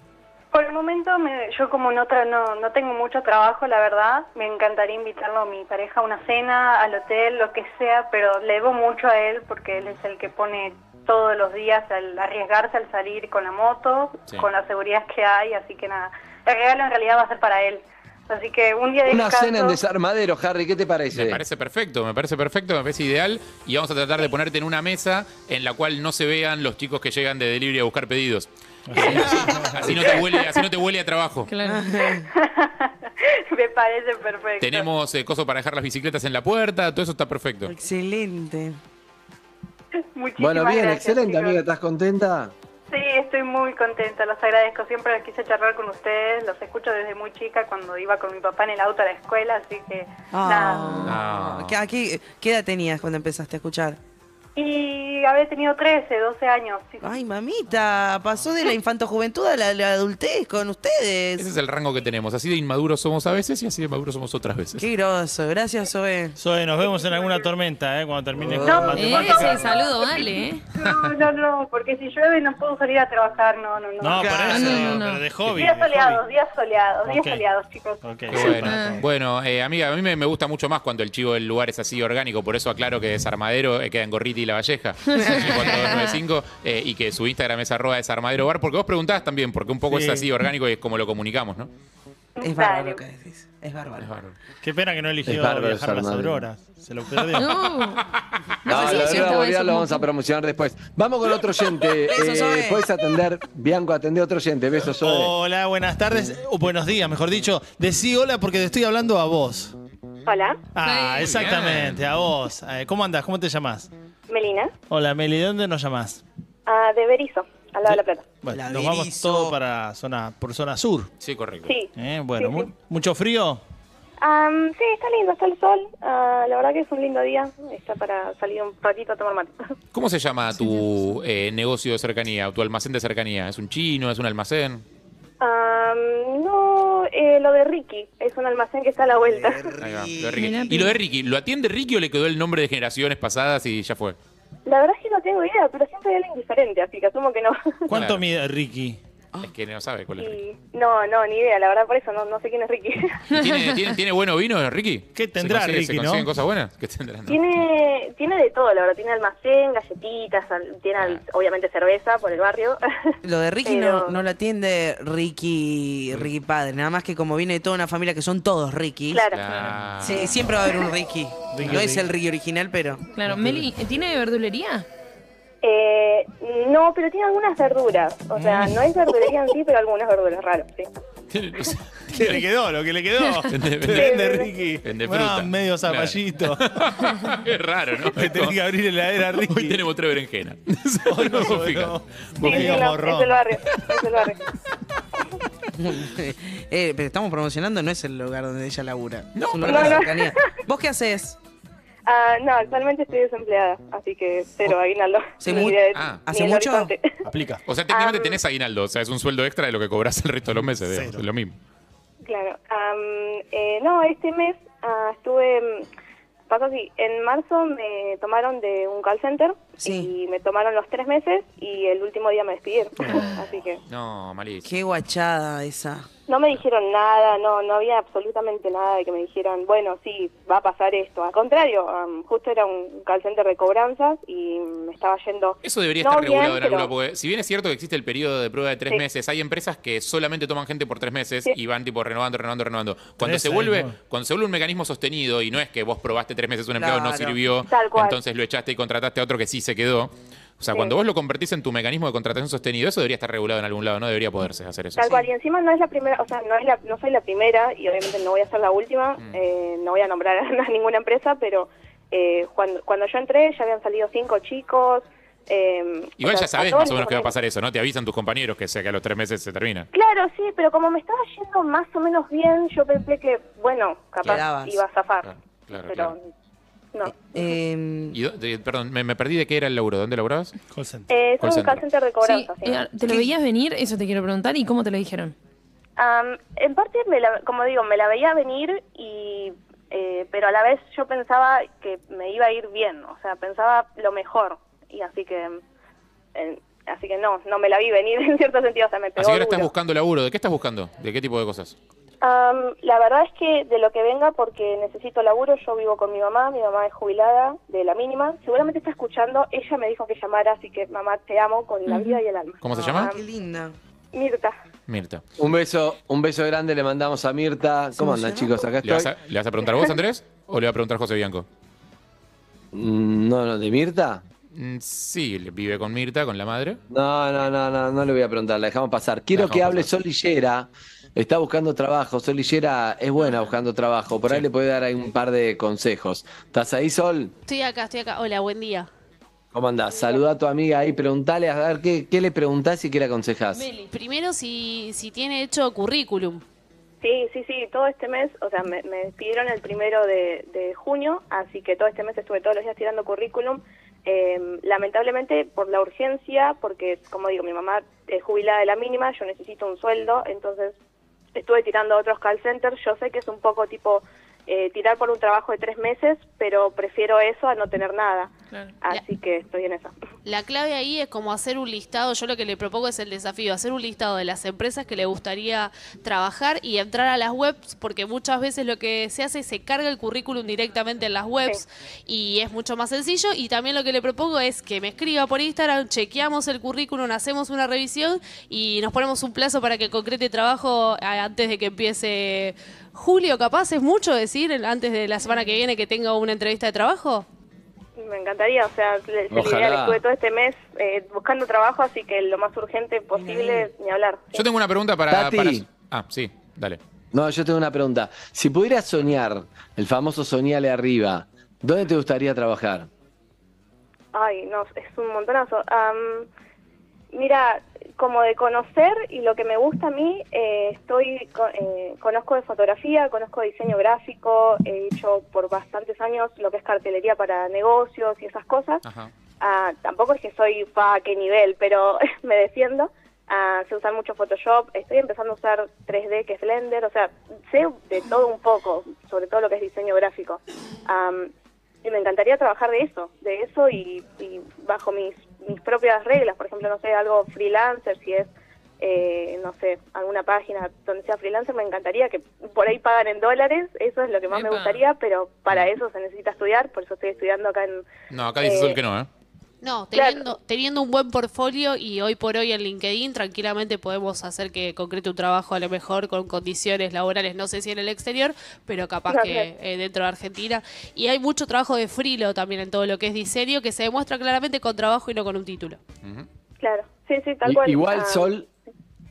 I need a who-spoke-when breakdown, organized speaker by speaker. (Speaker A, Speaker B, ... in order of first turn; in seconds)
Speaker A: 0.5-19.8, 32.1-34.9, 40.1-41.6, 42.9-51.2, 54.6-57.1, 66.8-67.5, 68.6-75.0, 75.5-78.4, 92.4-93.0
Speaker B: 19.1-21.4, 40.4-42.5, 95.2-96.5, 98.7-105.3, 315.4-319.1, 322.7-324.2, 326.9-337.4, 339.5-343.7, 399.3-400.0, 405.1-405.6, 407.1-412.9, 477.4-478.5
Speaker C: 21.1-31.5, 34.6-37.7, 51.0-51.8, 61.4-64.8, 78.3-91.7, 94.0-94.3, 111.2-112.1, 121.2-121.7, 129.9-134.8, 139.8-144.2, 147.9-148.2, 149.4-150.4, 153.3-157.5, 161.0-161.2, 169.3-170.4, 181.3-182.4, 183.5-184.3, 184.8-188.6, 189.3-192.8, 199.3-200.1, 205.9-206.2, 207.7-211.6, 223.9-224.7, 235.6-255.2, 266.2-269.9, 275.2-276.1, 278.1-280.5, 281.4-281.8, 299.2-301.8, 312.6-313.1, 314.9-315.2, 318.8-321.5, 324.5-326.8, 329.4-329.9, 404.3-406.8, 428.9-429.1, 458.1-459.1
Speaker D: 28.9-29.9, 66.4-69.8, 74.0-76.2, 77.0-77.5, 78.0-79.0, 89.9-90.3, 94.6-97.7, 105.0-109.8, 110.8-113.9, 114.9-116.2, 117.9-121.1, 122.0-123.6, 147.9-149.0, 155.1-156.3, 171.5-172.1, 173.3-173.7, 182.1-186.8, 188.0-189.8, 191.1-193.8, 207.2-207.6, 210.6-211.2, 243.2-244.0, 280.7-281.1
Speaker E: 29.0-29.5, 31.6-32.3, 37.7-38.8, 50.3-54.0, 57.0-61.5, 64.8-66.4, 68.4-69.2, 74.2-74.5, 85.2-85.8, 92.4-94.1, 98.8-99.2, 102.0-102.9, 118.5-119.5, 139.2-140.7, 163.2-169.2, 170.0-173.1, 195.8-201.4, 205.4-206.9, 219.8-220.1, 224.6-226.1, 246.8-247.4, 274.2-274.8, 277.1-278.2, 283.1-283.3, 312.7-313.8, 318.0-318.6, 403.1-403.7
Speaker F: 31.5-31.9, 69.0-70.7, 74.5-75.2, 78.6-79.0, 85.1-86.2, 97.3-98.1, 98.7-100.0, 110.8-111.3, 140.4-140.9, 153.3-153.8, 173.1-174.9, 282.2-285.3, 311.9-312.2, 343.5-343.9, 395.2-395.6, 454.3-454.8
Speaker G: 110.3-110.6, 114.3-114.7, 116.7-118.3, 121.7-122.7, 124.2-129.7, 135.4-139.8, 144.7-147.9, 150.2-153.2, 157.3-164.2, 169.1-169.4, 175.6-180.9, 183.9-184.5, 192.4-194.4, 199.6-200.6, 202.1-207.2, 207.9-208.4, 212.2-215.9, 216.5-223.8, 226.3-236.9, 247.7-248.2, 255.0-267.4, 269.9-276.2, 276.9-277.6, 281.1-282.9, 286.0-295.6, 296.4-299.7, 302.2-313.2, 314.1-314.6, 347.0-360.8, 361.3-368.3, 368.8-369.9, 398.0-404.5, 414.1-416.3, 417.1-428.8, 429.4-441.3, 441.8-458.8, 459.9-460.3, 469.1-469.5, 476.6-478.3
Speaker H: 337.5-338.9, 343.9-346.4, 370.2-397.3, 459.6-475.8